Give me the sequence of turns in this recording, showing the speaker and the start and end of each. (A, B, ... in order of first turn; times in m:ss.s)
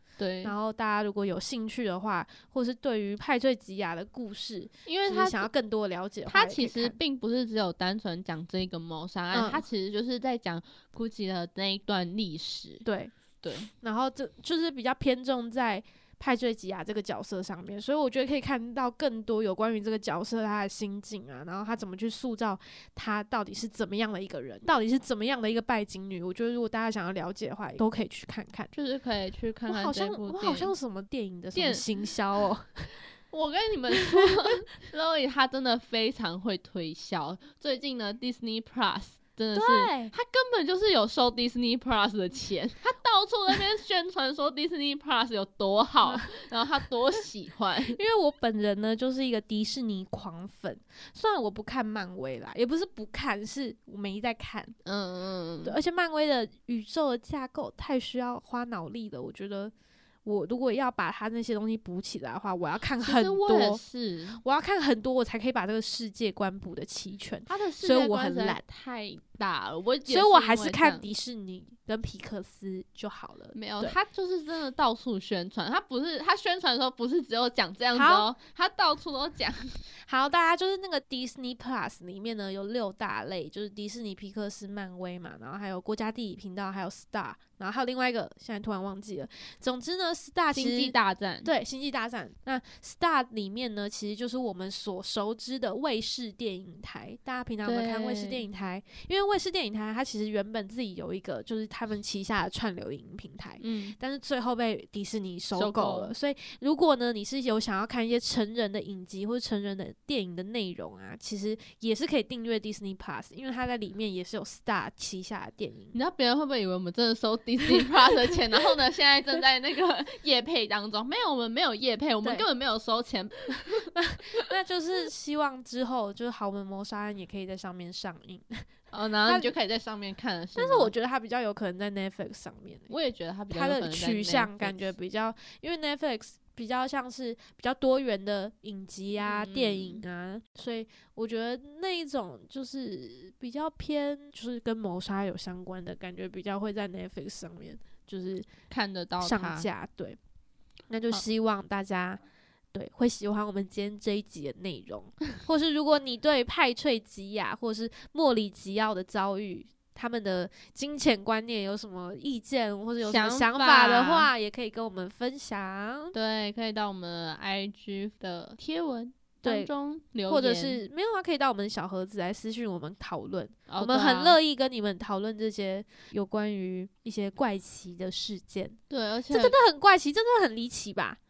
0:00.2-0:00.6 A
0:00.4-0:07.0 B
0:04.9-0:05.5 A
0:06.3-0:12.8 A
0:09.3-0:09.6 B
0:12.8-0:13.1 B
0:13.4-0:13.7 A
0:13.7-0:28.7 B
0:28.7-0:30.7 A
0:29.7-0:32.9 B
0:31.6-0:31.9 A
0:33.3-0:48.0 A
0:34.0-0:34.3 B
0:39.5-0:40.1 B
0:46.0-0:46.5 B
0:47.9-0:54.8 B
0:54.8-0:55.8 A
0:55.6-0:59.7 B
1:00.2-1:03.8 B
1:03.0-1:04.4 A
1:04.4-1:08.6 B
1:07.5-1:11.1 A
1:10.1-1:14.0 B
1:13.6-1:19.8 A
1:17.9-1:18.3 B
1:20.0-1:56.0 B
1:30.6-1:31.5 A
1:37.6-1:38.4 A
1:43.6-1:44.0 A
1:45.5-1:46.2 A
1:55.9-2:04.5 A
2:03.9-2:08.6 B
2:08.9-2:10.9 A
2:10.6-2:12.9 B
2:12.9-2:14.9 A
2:13.5-2:28.5 B
2:19.2-2:20.0 A
2:28.7-2:29.7 A
2:29.2-2:30.2 B
2:30.9-2:32.2 B
2:32.7-2:46.2 B
2:43.0-2:44.3 A
2:46.1-2:50.8 A
2:49.4-2:49.7 B
2:50.3-2:58.8 B
2:53.7-2:54.4 A
2:58.9-2:59.6 A
2:59.3-3:01.2 B